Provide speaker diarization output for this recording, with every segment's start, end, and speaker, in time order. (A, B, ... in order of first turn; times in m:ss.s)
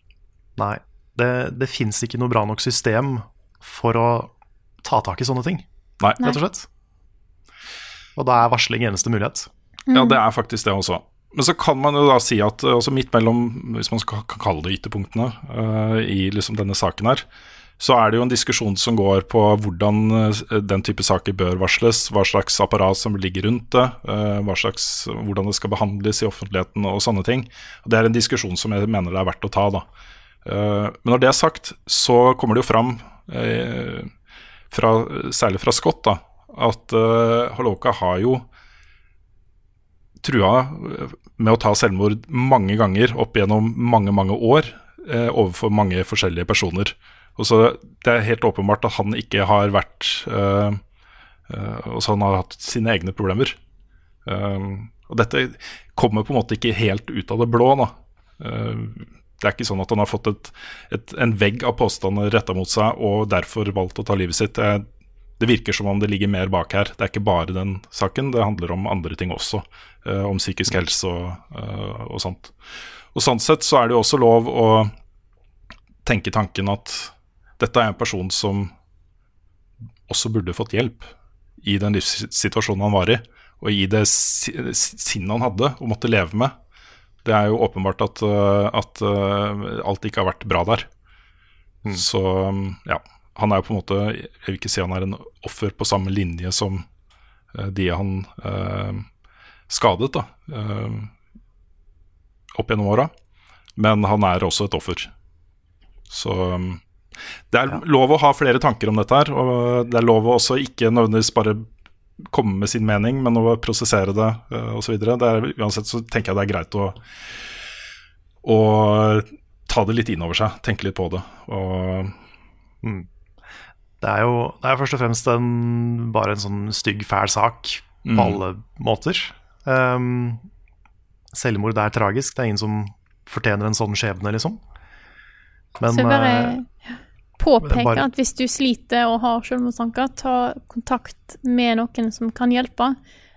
0:00.6-0:04.3 A
0:04.8-0:05.7 A
0:06.0-0:06.4 B
0:06.2-0:06.7 A
0:08.2-0:09.5 A
0:09.9-0:10.2 C
0:09.9-0:17.2 B
0:17.8-0:29.9 B
0:30.4-0:34.1 B
0:34.7-0:38.4 B
0:40.2-0:50.8 B
0:51.5-0:53.6 B
0:54.3-1:04.9 B
1:05.4-1:12.5 B
1:13.1-1:14.9 B
1:16.0-1:18.7 B
1:20.1-1:21.1 B
1:21.6-1:26.5 B
1:27.2-1:30.9 B
1:31.9-1:36.8 B
1:37.5-1:39.1 B
1:39.7-1:41.1 B
1:42.6-1:43.1 B
1:43.8-1:45.1 B
1:46.1-1:46.8 B
1:47.5-1:51.6 B
1:52.3-1:57.0 B
1:58.4-2:02.1 B
2:04.0-2:10.4 A
2:08.0-2:08.4 B
2:11.3-2:14.6 A
2:15.8-2:16.6 A
2:15.9-2:23.0 C
2:17.6-2:18.1 A